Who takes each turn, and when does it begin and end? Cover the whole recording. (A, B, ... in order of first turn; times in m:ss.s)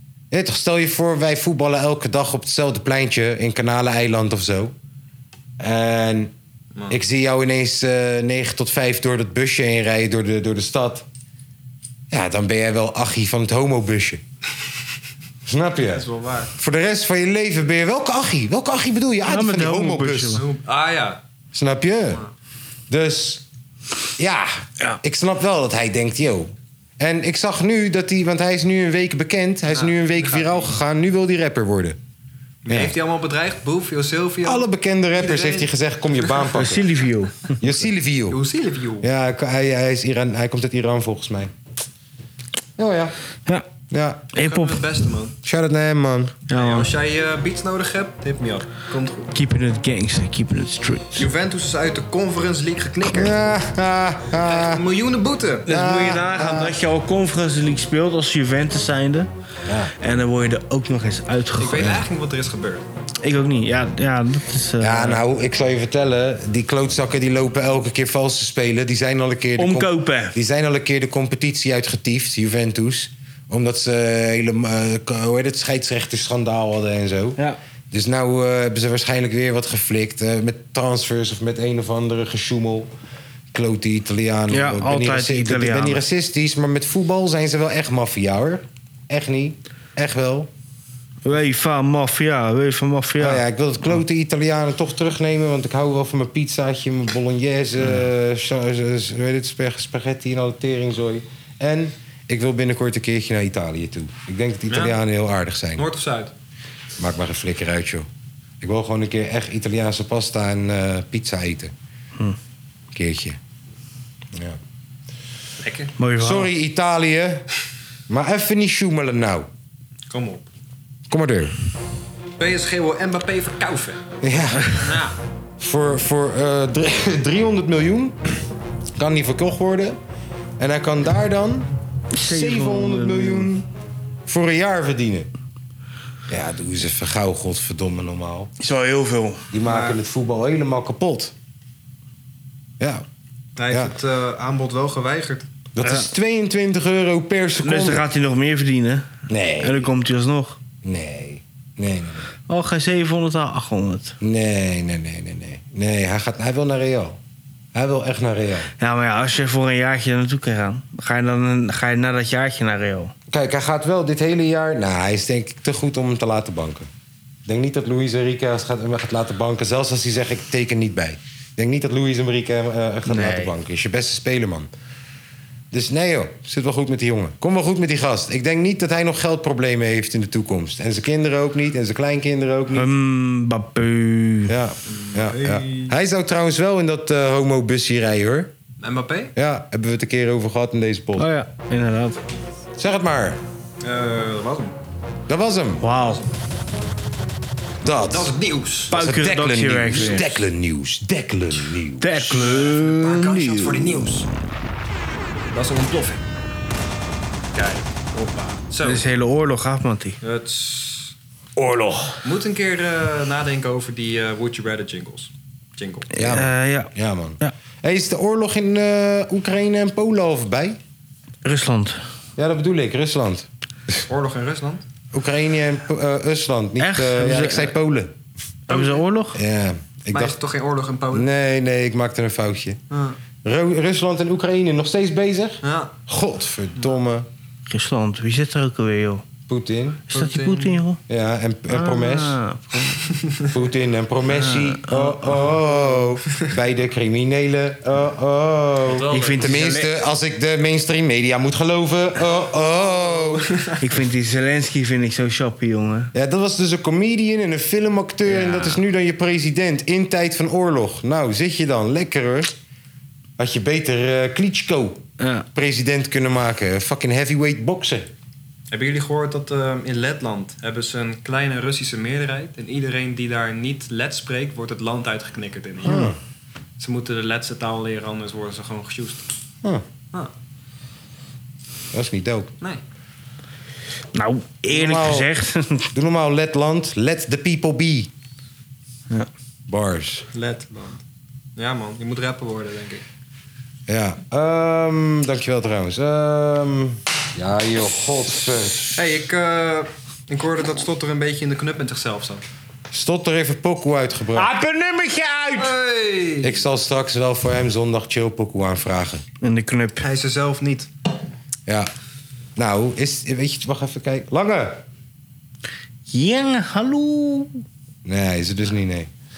0:00.3-0:04.8 A
0:05.6-0:06.3 A
0:06.8-0:07.0 B
0:06.9-0:11.1 A
0:12.1-0:14.2 A
0:15.5-0:20.4 A
0:15.8-0:16.5 B
0:19.3-0:20.4 C
0:20.4-0:21.2 B
0:21.5-0:22.2 A
0:22.9-0:23.4 A
0:24.2-0:32.0 A
0:29.7-0:30.8 B
0:32.6-0:36.6 B
0:32.7-0:33.0 A
0:34.4-0:36.9 A
0:36.5-0:37.6 C
0:37.6-0:38.4 A
0:38.3-0:39.1 B
0:39.0-0:41.5 A
0:42.8-0:43.2 A
0:43.9-0:44.3 A
0:44.3-0:44.9 C
0:44.4-0:45.4 B
0:45.4-0:46.4 A
0:46.5-0:46.9 C
0:46.5-0:49.3 B
0:49.3-0:51.2 C
0:51.2-0:53.6 B
0:53.0-0:54.8 A
0:54.3-0:55.7 B
0:55.7-0:56.8 A
0:55.7-0:59.3 C
0:59.7-0:59.9 A
1:00.0-1:01.9 C
1:01.6-1:02.8 B
1:03.2-1:05.2 C
1:04.8-1:17.4 A
1:09.6-1:10.4 C
1:17.9-1:22.9 A
1:23.5-1:30.5 A
1:24.5-1:26.0 C
1:31.2-1:34.0 C
1:33.2-1:45.9 A
1:44.7-1:45.0 B
1:45.8-1:46.3 B
1:47.0-1:48.1 A
1:48.6-1:51.7 A
1:52.9-1:53.4 A
1:54.3-1:54.6 A
1:55.6-1:56.0 B
1:56.0-1:56.5 C
1:56.2-1:57.5 A
1:58.1-1:59.5 A
2:00.1-2:00.4 B
2:01.1-2:01.6 A
2:02.4-2:05.2 B
2:04.2-2:04.8 A
2:05.6-2:08.2 A
2:09.0-2:10.0 A
2:10.6-2:13.7 A
2:12.1-2:13.5 C
2:14.3-2:15.3 A
2:16.3-2:18.5 A
2:18.6-2:19.5 C
2:19.5-2:21.4 A
2:19.6-2:20.0 B
2:22.8-2:23.0 A
2:23.6-2:25.5 B
2:25.8-2:28.0 A
2:25.8-2:26.1 C
2:27.6-2:30.6 C
2:29.3-2:29.9 A
2:30.8-2:32.3 A
2:32.5-2:34.2 C
2:34.2-2:37.2 A
2:37.7-2:38.7 A
2:38.8-2:43.1 C
2:43.3-2:46.9 A
2:47.5-2:54.7 A
2:53.1-2:53.5 C
2:55.7-3:02.9 A
3:02.7-3:04.5 C
3:04.5-3:08.5 A
3:04.9-3:05.9 B
3:08.8-3:09.3 B
3:09.4-3:11.3 A
3:11.2-3:12.2 C
3:12.8-3:13.4 A
3:13.8-3:14.8 B
3:15.3-3:15.8 A
3:15.8-3:16.2 C
3:16.0-3:16.3 B
3:17.8-3:18.3 A
3:18.0-3:19.0 B
3:18.9-3:20.4 C
3:18.9-3:22.2 A
3:22.0-3:24.1 C
3:22.2-3:24.3 B
3:25.5-3:26.2 B
3:27.5-3:29.1 B
3:28.8-3:30.2 C
3:30.2-3:31.1 B
3:31.6-3:32.2 A
3:32.2-3:36.1 B
3:36.1-3:37.5 C
3:36.2-3:40.8 A
3:41.4-3:42.0 C
3:42.4-3:43.5 A
3:44.0-3:44.8 B
3:45.1-3:48.2 A
3:46.8-3:47.8 C
3:48.7-3:49.4 C
3:48.7-3:49.0 B
3:49.3-3:50.4 A
3:50.1-3:51.3 B
3:51.1-3:52.8 A
3:52.9-3:53.2 B
3:53.4-3:57.3 A
3:55.6-3:55.9 B
3:57.7-3:59.2 C
3:59.5-4:00.0 A
4:00.1-4:00.8 B
4:00.1-4:01.0 C
4:01.1-4:02.4 A
4:01.7-4:03.1 C
4:03.2-4:03.5 B
4:03.5-4:13.6 A
4:04.3-4:05.4 C
4:08.8-4:09.6 B
4:09.1-4:09.9 C
4:12.9-4:13.8 B
4:13.8-4:16.1 C
4:16.1-4:22.6 A
4:18.2-4:18.8 C
4:23.4-4:28.1 A
4:25.2-4:25.5 C
4:28.7-4:36.1 B
4:35.8-4:36.2 A
4:36.8-4:39.3 B
4:41.9-4:42.5 A
4:44.1-4:45.9 C
4:44.7-4:45.3 A
4:45.9-4:48.1 A
4:49.7-4:50.3 A
4:50.3-4:51.0 B
4:51.6-4:53.0 B
4:53.9-4:59.0 A
4:59.0-5:02.4 B
5:02.9-5:04.6 A
5:04.4-5:05.6 C
5:05.6-5:06.6 B
5:06.4-5:09.2 A
5:09.4-5:10.0 C
5:10.0-5:10.9 B
5:11.7-5:11.9 A
5:12.6-5:14.8 A
5:16.1-5:17.6 C
5:18.0-5:19.1 A